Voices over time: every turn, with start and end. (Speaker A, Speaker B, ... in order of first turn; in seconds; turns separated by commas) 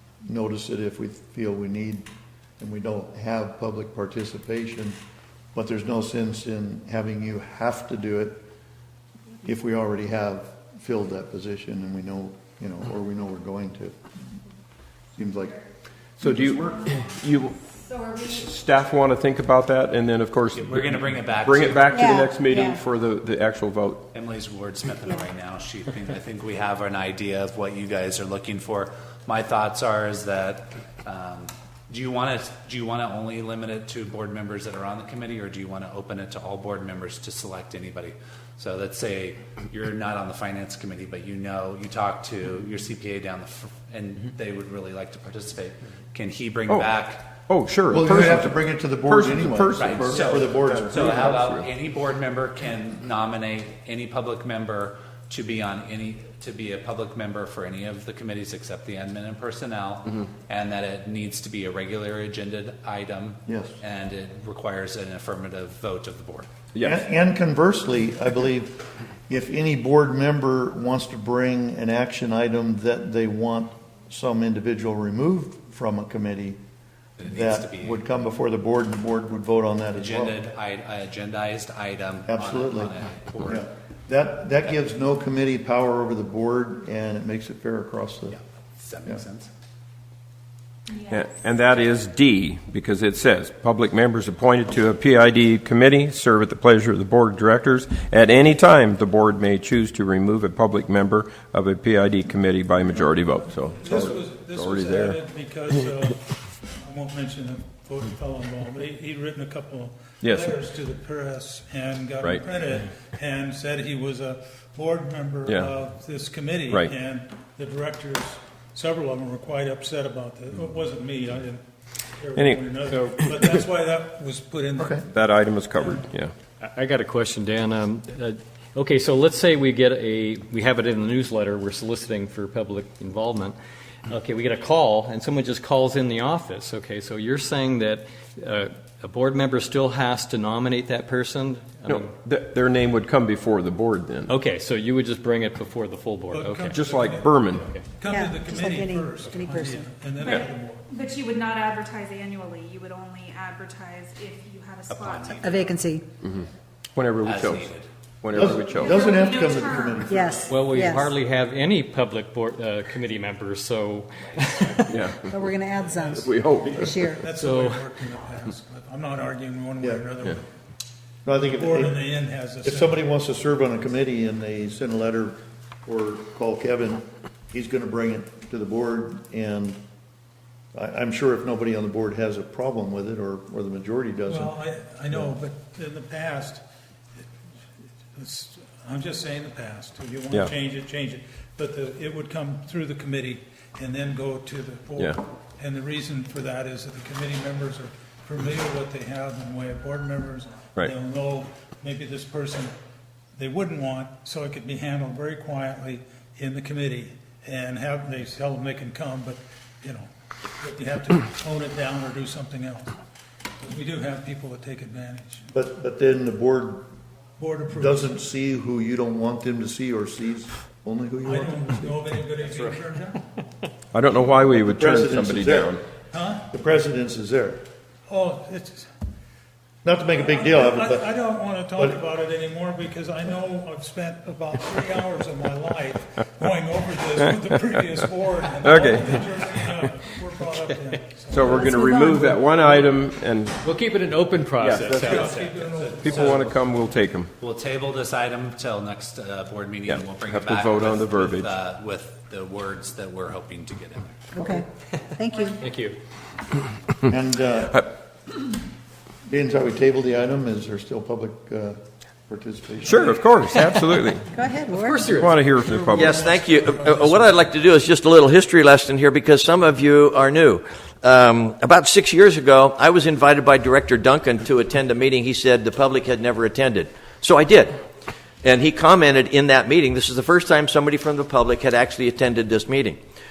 Speaker A: 0.2-2.1, Speaker A: 2.6-5.0, Speaker A: 5.5-8.4, Speaker A: 9.4-14.0, Speaker A: 15.2-15.6, Speaker B: 16.2-17.6, Speaker C: 16.4-18.5, Speaker B: 18.2-24.1, Speaker D: 20.5-22.2, Speaker E: 21.9-22.8, Speaker D: 24.1-47.3, Speaker B: 47.5-51.7, Speaker A: 47.9-51.5, Speaker D: 49.8-66.5, Speaker A: 63.5-63.8, Speaker B: 66.8-67.0, Speaker A: 66.8-76.6, Speaker D: 77.2-78.0, Speaker A: 77.2-80.4, Speaker D: 80.0-83.6, Speaker A: 82.3-88.4, Speaker D: 88.3-89.5, Speaker C: 90.9-91.4, Speaker B: 91.1-105.2, Speaker F: 103.8-121.6, Speaker B: 110.2-110.6, Speaker B: 115.5-115.7, Speaker F: 122.2-125.1, Speaker B: 122.4-122.7, Speaker G: 122.9-123.2, Speaker A: 124.8-125.0, Speaker B: 125.1-126.3, Speaker G: 126.6-142.1, Speaker B: 141.9-144.3, Speaker G: 144.3-146.8, Speaker F: 146.3-150.9, Speaker B: 146.7-147.7, Speaker G: 147.6-147.9, Speaker E: 148.1-149.9, Speaker C: 150.2-155.7, Speaker D: 154.9-155.8, Speaker E: 155.3-156.1, Speaker B: 156.2-157.7, Speaker D: 157.2-157.9, Speaker B: 158.2-159.1, Speaker A: 158.3-160.7, Speaker C: 158.8-160.1, Speaker E: 160.1-161.1, Speaker G: 160.5-164.9, Speaker B: 164.9-165.3, Speaker E: 165.2-167.2, Speaker F: 165.7-166.4, Speaker B: 166.2-167.1, Speaker F: 167.2-170.4, Speaker G: 167.4-167.8, Speaker A: 171.2-172.0, Speaker F: 171.3-173.0, Speaker A: 172.6-179.8, Speaker A: 180.8-184.5, Speaker F: 184.3-186.6, Speaker F: 188.2-202.7, Speaker F: 203.4-210.1, Speaker F: 210.6-213.0, Speaker F: 213.6-215.5, Speaker A: 215.5-216.8, Speaker F: 217.4-218.2, Speaker A: 217.7-222.0, Speaker F: 221.2-223.2, Speaker B: 223.9-225.8, Speaker A: 224.7-225.8, Speaker F: 226.1-226.5, Speaker A: 226.5-227.6, Speaker F: 228.1-228.9, Speaker A: 229.8-231.1, Speaker F: 230.1-241.6, Speaker B: 238.6-239.2, Speaker B: 241.3-243.6, Speaker E: 241.6-242.3, Speaker G: 243.6-245.5, Speaker B: 244.6-245.3, Speaker F: 244.9-246.5, Speaker D: 245.1-246.6, Speaker B: 246.0-247.3, Speaker D: 247.4-254.2, Speaker B: 250.3-251.5, Speaker E: 254.3-255.6, Speaker G: 255.6-256.0, Speaker A: 257.0-257.9, Speaker A: 259.3-263.2, Speaker B: 262.8-264.3, Speaker E: 264.3-265.2, Speaker G: 264.7-265.5, Speaker B: 265.1-266.2, Speaker F: 265.6-267.5, Speaker H: 265.9-277.8, Speaker H: 278.4-283.0